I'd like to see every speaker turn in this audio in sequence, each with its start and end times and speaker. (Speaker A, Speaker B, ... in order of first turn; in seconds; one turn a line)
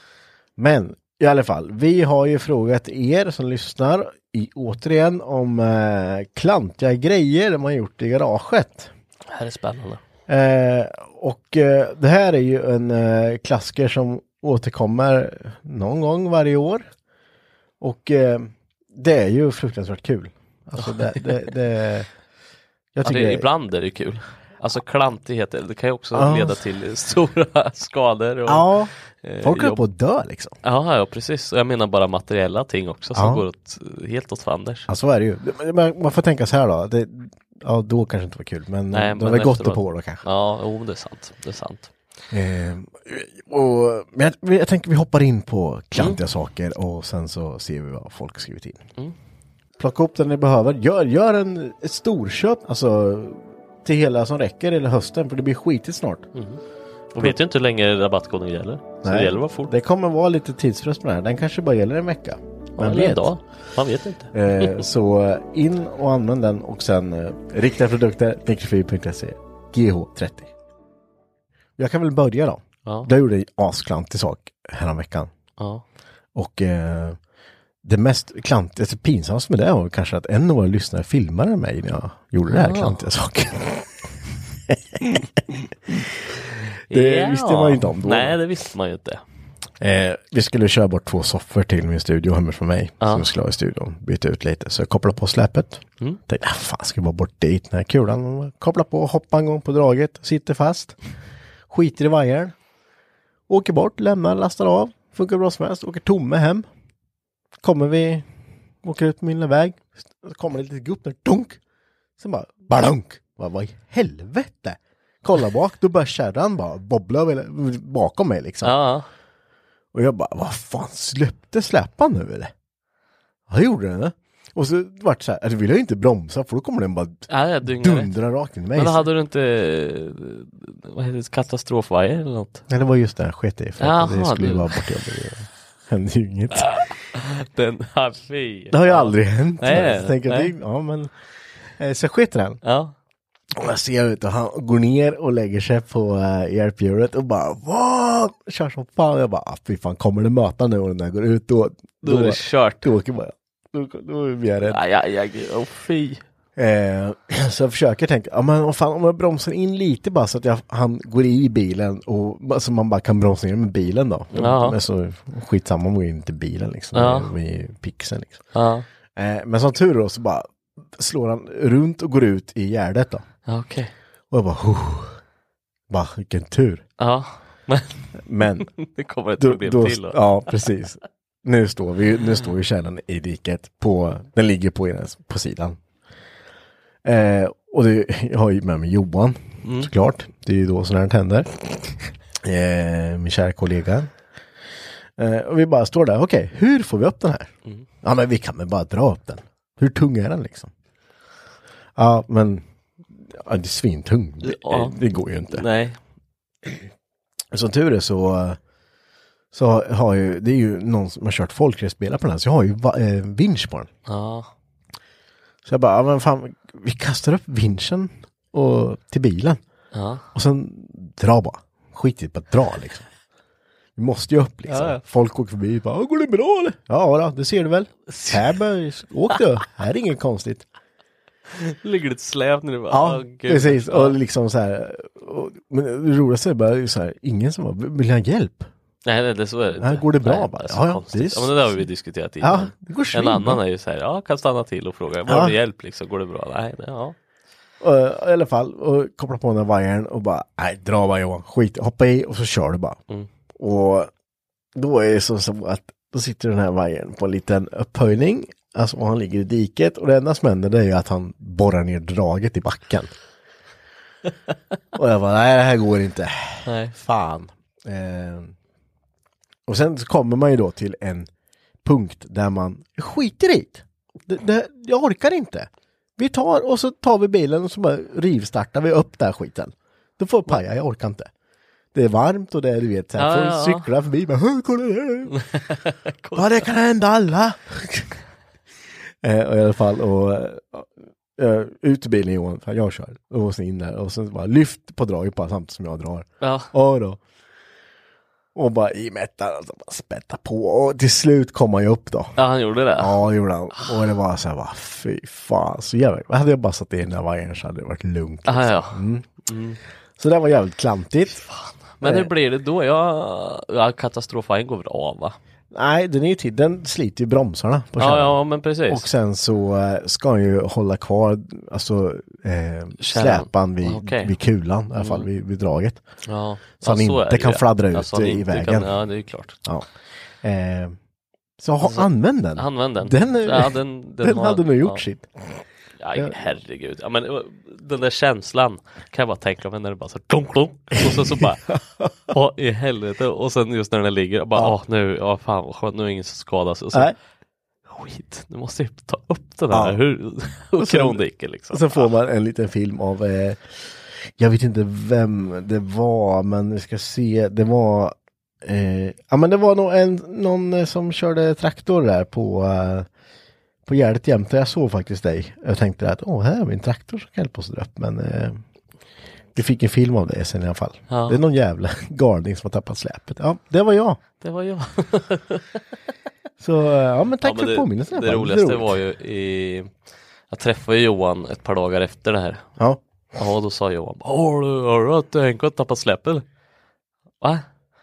Speaker A: 0.6-8.9
Speaker B: 9.3-10.0
Speaker A: 10.3-16.9
Speaker A: 17.8-22.1
Speaker B: 20.8-21.3
Speaker A: 22.9-23.5
Speaker B: 23.0-28.7
Speaker A: 26.1-26.6
Speaker A: 28.5-30.6
Speaker B: 29.2-29.8
Speaker B: 30.6-34.9
Speaker A: 33.1-33.5
Speaker A: 34.9-40.2
Speaker B: 38.9-41.9
Speaker A: 42.3-48.9
Speaker A: 49.8-56.3
Speaker B: 56.4-56.6
Speaker B: 57.1-59.7
Speaker A: 59.0-63.3
Speaker B: 62.8-64.8
Speaker A: 64.3-70.5
Speaker A: 71.8-75.3
Speaker B: 72.9-73.1
Speaker B: 75.6-75.8
Speaker A: 76.3-77.2
Speaker A: 77.8-84.1
Speaker B: 82.5-83.0
Speaker A: 84.7-85.2
Speaker A: 85.9-86.3
Speaker B: 86.9-89.2
Speaker A: 86.9-88.4
Speaker A: 89.8-101.0
Speaker B: 93.0-93.3
Speaker A: 101.7-102.5
Speaker A: 103.5-106.7
Speaker A: 107.6-108.3
Speaker A: 108.8-111.6
Speaker A: 112.2-118.8
Speaker B: 118.6-119.1
Speaker A: 119.9-122.5
Speaker A: 123.5-129.1
Speaker B: 127.3-128.1
Speaker B: 128.8-132.6
Speaker A: 132.7-136.8
Speaker B: 133.8-134.9
Speaker B: 136.5-140.5
Speaker A: 138.7-141.1
Speaker A: 141.8-142.6
Speaker B: 142.6-142.9
Speaker A: 143.5-154.8
Speaker B: 152.0-152.9
Speaker B: 154.7-156.2
Speaker A: 156.6-168.4
Speaker B: 164.3-164.8
Speaker B: 166.9-167.3
Speaker B: 168.5-168.9
Speaker A: 169.2-173.3
Speaker B: 173.5-173.9
Speaker A: 174.3-175.2
Speaker A: 175.9-176.8
Speaker B: 177.0-180.7
Speaker A: 178.2-178.7
Speaker A: 179.4-185.8
Speaker A: 187.0-194.1
Speaker B: 189.6-189.9
Speaker A: 195.2-200.7
Speaker A: 202.0-202.7
Speaker A: 203.2-205.7
Speaker B: 204.4-206.0
Speaker A: 207.5-208.6
Speaker A: 209.5-213.9
Speaker B: 214.1-214.5
Speaker A: 215.7-219.6
Speaker B: 219.9-220.3
Speaker A: 220.3-223.0
Speaker A: 224.0-230.7
Speaker B: 224.7-225.0
Speaker B: 228.1-228.4
Speaker B: 231.5-234.2
Speaker A: 232.9-238.7
Speaker B: 239.1-247.2
Speaker A: 239.8-241.8
Speaker A: 242.4-243.6
Speaker A: 245.3-245.6
Speaker A: 247.8-253.0
Speaker A: 253.6-254.1
Speaker A: 254.8-263.1
Speaker A: 264.9-268.5
Speaker B: 266.7-266.9
Speaker A: 269.7-271.3
Speaker A: 271.8-281.3
Speaker A: 281.9-285.4
Speaker B: 283.2-283.9
Speaker B: 285.3-286.7
Speaker A: 286.4-288.1
Speaker A: 289.2-297.2
Speaker B: 296.4-296.7
Speaker A: 298.6-302.4
Speaker B: 302.4-303.2
Speaker A: 303.0-309.3
Speaker B: 308.5-309.8
Speaker A: 310.2-311.4
Speaker B: 311.4-315.4
Speaker A: 312.0-312.3
Speaker A: 315.7-326.0
Speaker B: 318.0-319.1
Speaker B: 323.0-324.4
Speaker B: 325.0-325.3
Speaker B: 326.2-329.6
Speaker A: 326.8-328.9
Speaker A: 330.4-331.0
Speaker A: 331.6-335.6
Speaker B: 331.8-335.0
Speaker B: 336.0-341.7
Speaker A: 341.4-342.1
Speaker B: 342.3-347.1
Speaker B: 347.9-352.1
Speaker A: 349.7-350.0
Speaker A: 350.8-363.1
Speaker A: 363.9-368.6
Speaker A: 369.6-374.2
Speaker B: 371.1-371.4
Speaker B: 374.4-375.8
Speaker A: 376.6-378.9
Speaker B: 377.4-379.9
Speaker B: 380.5-382.6
Speaker B: 383.4-386.4